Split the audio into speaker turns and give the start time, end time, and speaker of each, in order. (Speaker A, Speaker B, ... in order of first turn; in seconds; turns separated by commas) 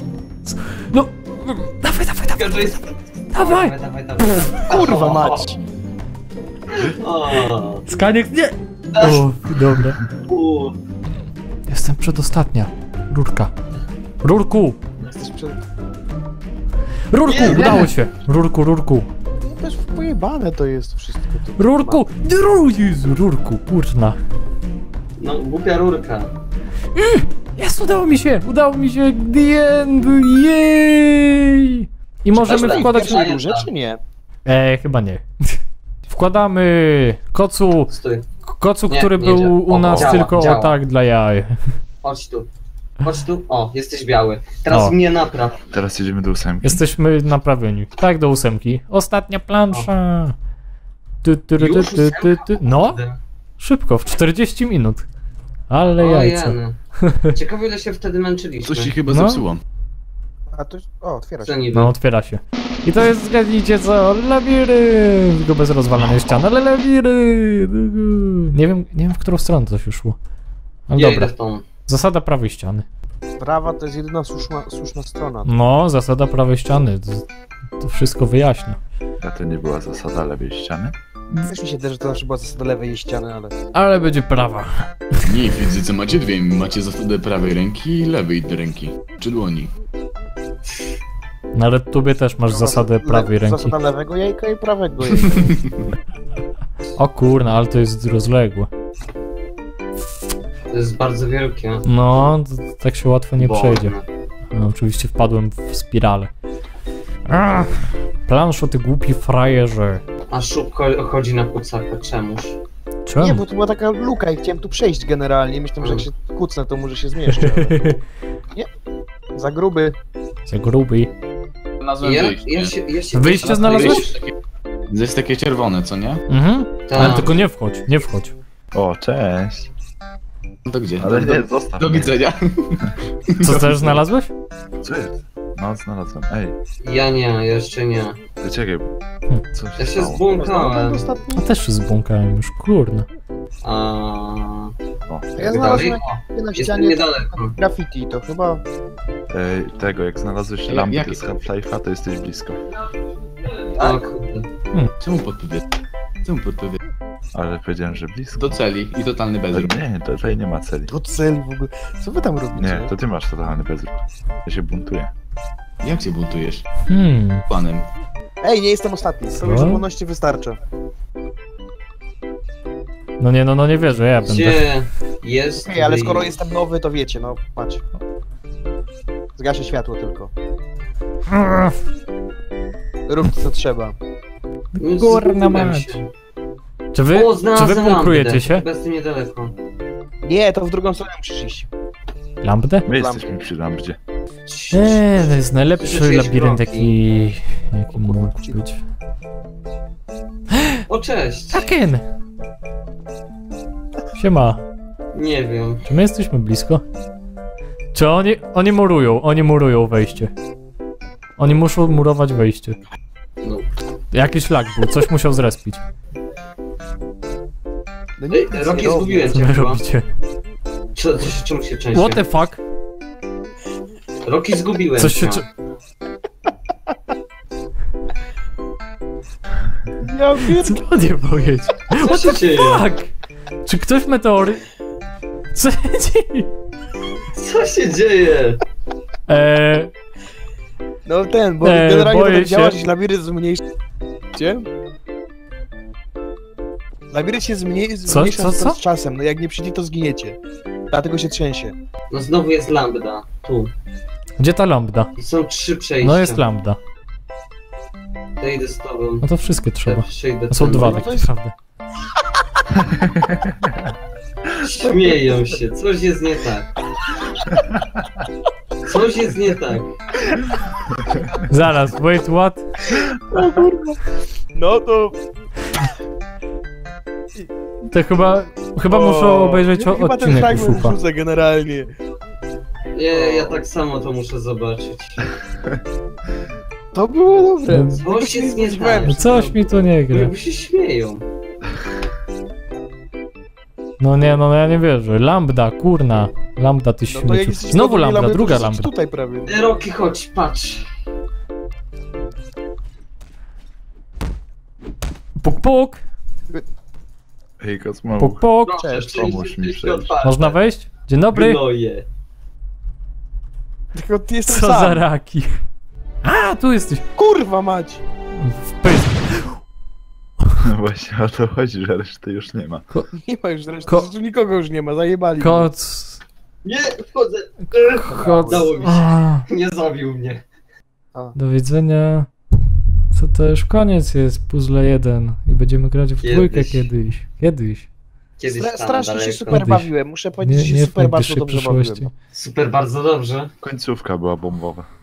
Speaker A: 0.5-2.8, Speaker B: 2.4-5.4, Speaker A: 3.3-4.6, Speaker C: 4.7-5.6, Speaker B: 6.7-7.8, Speaker A: 7.9-10.0, Speaker B: 8.9-9.2, Speaker B: 10.3-10.8, Speaker A: 11.7-13.5, Speaker A: 14.2-14.8, Speaker C: 15.0-15.6, Speaker A: 17.1-19.1, Speaker B: 17.3-17.9, Speaker C: 17.4-17.9, Speaker C: 19.4-22.1, Speaker A: 21.6-24.2, Speaker B: 25.2-26.3, Speaker A: 26.9-33.2, Speaker C: 32.3-34.0, Speaker B: 32.4-33.7, Speaker A: 34.5-35.6, Speaker A: 36.1-37.9, Speaker B: 37.9-38.3, Speaker A: 38.5-41.6, Speaker B: 38.9-40.8, Speaker B: 42.0-42.5, Speaker B: 43.0-45.6, Speaker A: 44.7-45.0, Speaker D: 45.7-46.8, Speaker A: 46.6-50.4, Speaker A: 51.2-53.0, Speaker B: 51.6-53.2, Speaker A: 53.6-55.0, Speaker A: 55.7-57.3, Speaker B: 56.0-56.8, Speaker B: 57.3-58.9, Speaker E: 58.6-59.6, Speaker A: 59.1-59.4, Speaker C: 60.5-61.6, Speaker B: 61.4-61.9, Speaker A: 61.7-70.2, Speaker A: 70.9-71.3, Speaker B: 71.0-71.7, Speaker A: 71.9-72.8, Speaker C: 73.4-75.5, Speaker A: 75.5-77.2, Speaker A: 77.8-78.8, Speaker D: 79.2-80.9, Speaker C: 81.5-83.5, Speaker A: 83.7-85.2, Speaker E: 85.3-89.7, Speaker A: 91.5-93.8, Speaker C: 92.5-95.5, Speaker E: 95.4-95.8, Speaker A: 97.0-98.7, Speaker B: 100.7-101.8, Speaker A: 101.8-104.0, Speaker B: 103.4-104.0, Speaker A: 104.5-106.3, Speaker A: 107.3-110.0, Speaker B: 110.3-112.6, Speaker A: 113.1-113.4, Speaker C: 113.2-117.8, Speaker B: 115.8-116.1, Speaker A: 117.3-118.0, Speaker C: 119.3-120.0, Speaker A: 120.5-121.1, Speaker E: 121.8-122.7, Speaker B: 122.0-124.2, Speaker A: 123.1-124.1, Speaker E: 123.6-124.3, Speaker E: 124.9-126.2, Speaker A: 126.3-128.3, Speaker B: 126.9-127.3, Speaker D: 128.7-129.7, Speaker E: 130.7-134.0, Speaker D: 131.0-132.2, Speaker A: 133.4-134.3, Speaker D: 134.8-136.6, Speaker B: 136.8-138.2, Speaker D: 138.4-138.9, Speaker D: 139.5-140.2, Speaker B: 139.8-141.0, Speaker C: 140.3-141.5, Speaker A: 141.4-143.1, Speaker B: 143.6-144.7, Speaker C: 145.4-148.6, Speaker B: 145.4-147.6, Speaker D: 149.3-152.6, Speaker E: 150.7-151.3, Speaker B: 153.5-154.5, Speaker E: 155.0-155.6, Speaker E: 156.2-156.8, Speaker D: 157.3-158.6, Speaker E: 158.4-159.7, Speaker D: 159.5-160.9, Speaker C: 160.9-162.9, Speaker D: 162.6-165.1, Speaker E: 165.8-166.7, Speaker A: 166.9-167.4, Speaker E: 167.5-167.9, Speaker C: 168.4-170.6, Speaker A: 169.3-169.8, Speaker A: 173.2-174.6, Speaker B: 174.2-176.3, Speaker C: 175.7-177.8, Speaker C: 179.4-180.3, Speaker A: 181.3-181.8, Speaker C: 183.1-183.9, Speaker A: 184.8-186.0, Speaker B: 184.8-186.1, Speaker A: 186.9-188.6, Speaker B: 187.1-189.5, Speaker C: 190.2-191.7, Speaker A: 192.4-192.9, Speaker D: 192.8-194.0, Speaker C: 192.9-193.3, Speaker B: 194.5-196.9, Speaker A: 194.7-198.8, Speaker C: 197.9-198.6, Speaker B: 200.9-201.7, Speaker A: 201.5-202.0, Speaker A: 204.2-204.6, Speaker B: 205.1-205.8, Speaker A: 205.8-206.8, Speaker A: 207.9-210.3, Speaker A: 211.4-212.8, Speaker B: 213.4-213.7, Speaker A: 214.1-215.8, Speaker C: 218.2-219.3, Speaker B: 218.3-219.8, Speaker A: 219.3-220.1, Speaker B: 220.9-222.2, Speaker A: 221.9-222.6, Speaker B: 224.2-225.4, Speaker A: 225.0-225.4, Speaker C: 230.0-230.8, Speaker A: 230.4-233.1, Speaker B: 232.0-232.9, Speaker A: 233.7-234.6, Speaker A: 235.5-236.5, Speaker B: 237.3-238.6, Speaker A: 239.3-239.9, Speaker C: 241.1-243.6, Speaker A: 241.6-242.8, Speaker C: 244.3-244.7, Speaker C: 247.1-250.4, Speaker A: 248.1-248.8, Speaker C: 250.9-251.8, Speaker B: 252.1-253.7, Speaker A: 254.4-255.1, Speaker B: 255.2-256.4, Speaker A: 256.0-256.8, Speaker B: 258.4-259.3, Speaker A: 259.2-261.5, Speaker B: 259.9-261.1, Speaker C: 260.7-261.3, Speaker D: 262.7-263.9, Speaker B: 264.6-266.7, Speaker C: 264.9-265.1, Speaker B: 268.8-269.9, Speaker A: 271.5-272.7, Speaker C: 273.3-275.1, Speaker A: 277.9-281.0, Speaker C: 278.9-281.9, Speaker B: 282.9-285.3, Speaker C: 283.1-283.6, Speaker C: 286.9-289.1, Speaker A: 287.7-288.0, Speaker B: 288.0-289.6, Speaker A: 289.1-290.3, Speaker B: 290.1-291.2, Speaker A: 294.0-298.9, Speaker C: 297.1-299.7, Speaker B: 299.5-300.9, Speaker A: 305.4-306.0, Speaker D: 307.6-308.4, Speaker A: 308.2-308.9, Speaker B: 308.6-310.6, Speaker C: 308.8-309.2, Speaker D: 309.0-310.1, Speaker A: 310.2-311.6, Speaker B: 311.3-312.1, Speaker C: 313.9-315.0, Speaker A: 314.5-315.6, Speaker A: 316.2-317.0, Speaker C: 317.2-318.0, Speaker A: 318.4-319.6, Speaker D: 320.6-322.9, Speaker C: 323.2-325.7, Speaker A: 325.4-326.2, Speaker B: 326.6-330.4, Speaker A: 327.8-329.5, Speaker C: 328.1-328.9, Speaker A: 331.4-332.3, Speaker A: 333.1-337.9, Speaker B: 336.2-336.9, Speaker B: 338.4-339.7, Speaker C: 338.5-342.1, Speaker A: 339.5-339.9, Speaker A: 340.4-342.1, Speaker B: 342.3-343.5, Speaker D: 343.6-344.9